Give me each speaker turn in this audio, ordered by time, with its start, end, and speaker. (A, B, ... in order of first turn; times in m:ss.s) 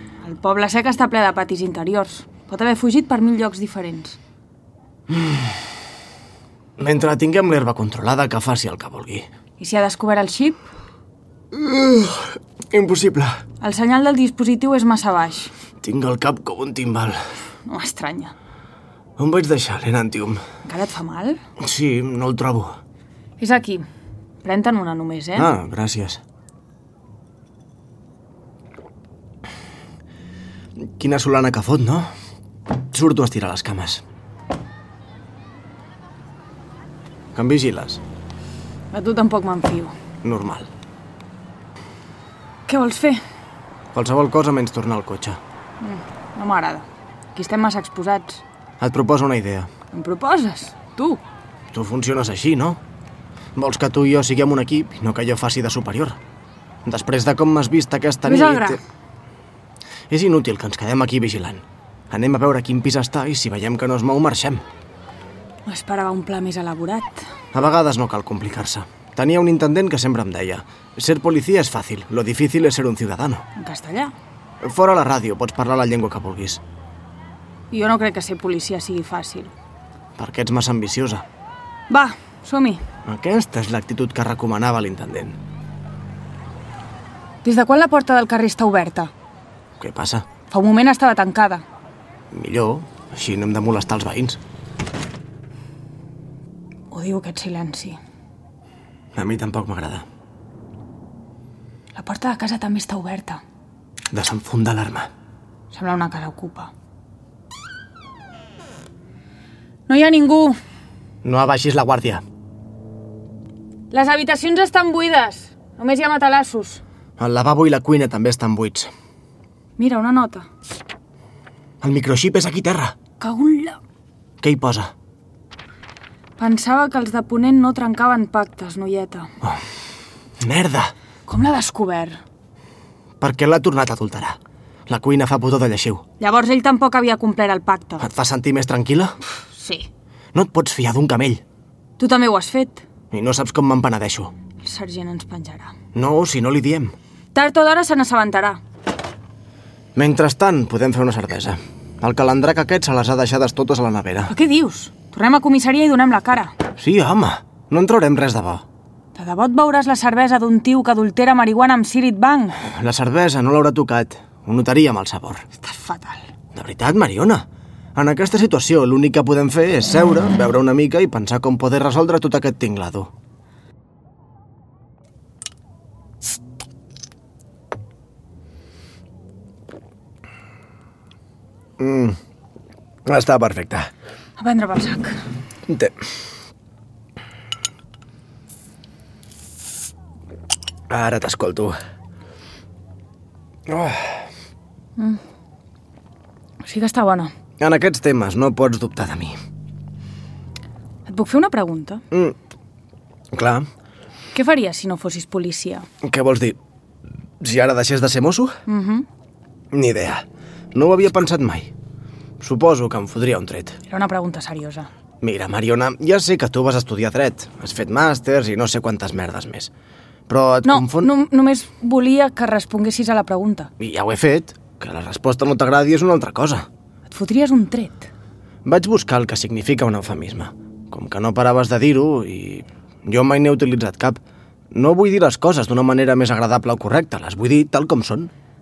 0:00.2-0:04.2 A
0:05.1-0:05.5 B
0:06.8-0:09.3 B
0:09.6-0:10.6 A
0:11.5-0:13.4 B
0:13.6-0:15.5 A
0:15.8-0:17.2 B
0:17.7-0:18.3 A
0:19.2-0:20.4 B
0:20.6-0:21.4 A
0:21.6-0:22.8 B
0:23.4-0:23.8 A
0:24.4-0:25.5 A
0:25.4-0:26.2 B
0:30.8-0:32.1 B
0:32.9-0:34.0 B
0:37.3-0:38.0 B
0:38.9-0:39.9 A
0:40.2-0:40.7 B
0:42.7-0:43.2 A
0:43.9-0:45.4 B
0:45.8-0:48.4 A
0:48.8-0:49.7 B
0:49.9-0:51.2 A
0:51.7-0:52.8 B
0:53.6-0:56.2 B
0:56.8-0:58.8 B
0:58.2-0:58.8 A
1:00.1-1:04.6 B
1:05.7-1:07.2 A
1:07.5-1:13.4 B
1:13.6-1:14.1 A
1:14.6-1:16.6 B
1:17.7-1:19.5 A
1:20.2-1:21.2 B
1:21.9-1:22.8 A
1:23.1-1:25.4 B
1:27.4-1:29.1 A
1:29.8-1:30.3 B
1:30.5-1:31.6 A
1:32.3-1:34.4 B
1:36.9-1:38.0 A
1:39.2-1:40.1 B
1:42.0-1:43.4 A
1:44.1-1:45.1 B
1:45.7-1:46.7 A
1:49.9-1:50.6 A
1:51.2-1:52.2 B
1:53.9-1:56.8 A
1:57.2-1:58.9 B
1:59.8-2:00.5 A
2:01.8-2:03.0 B
2:03.2-2:03.8 A
2:04.4-2:04.9 B
2:06.4-2:09.3 A
2:10.4-2:10.9 B
2:11.3-2:12.2 A
2:13.2-2:16.0 B
2:16.2-2:18.0 A
2:18.0-2:19.2 B
2:19.5-2:19.9 A
2:20.3-2:21.4 B
2:22.0-2:22.8 A
2:23.1-2:24.3 B
2:24.6-2:25.7 A
2:25.9-2:27.0 B
2:27.3-2:28.6 A
2:30.0-2:34.3 B
2:34.3-2:36.6 A
2:36.8-2:38.6 B
2:39.1-2:42.6 A
2:42.6-2:45.4 B
2:45.6-2:46.3 A
2:46.5-2:53.1 B
3:01.8-3:02.2 B
3:03.1-3:03.9 B
3:04.4-3:05.2 A
3:05.7-3:05.9 B
3:10.9-3:11.8 B
3:13.7-3:14.2 B
3:16.6-3:17.3 A
3:17.6-3:19.4 B
3:21.1-3:22.0 A
3:22.1-3:22.4 B
3:23.3-3:23.7 B
3:24.3-3:25.9 A
3:26.0-3:26.6 B
3:27.4-3:28.6 B
3:28.7-3:29.1 A
3:29.7-3:31.7 B
3:32.4-3:33.8 B
3:33.9-3:34.9 A
3:35.2-3:39.7 B
3:40.3-3:41.1 B
3:40.6-3:43.7 A
3:43.8-3:46.7 B
3:47.1-3:48.1 A
3:48.6-3:54.2 B
3:54.7-3:58.3 B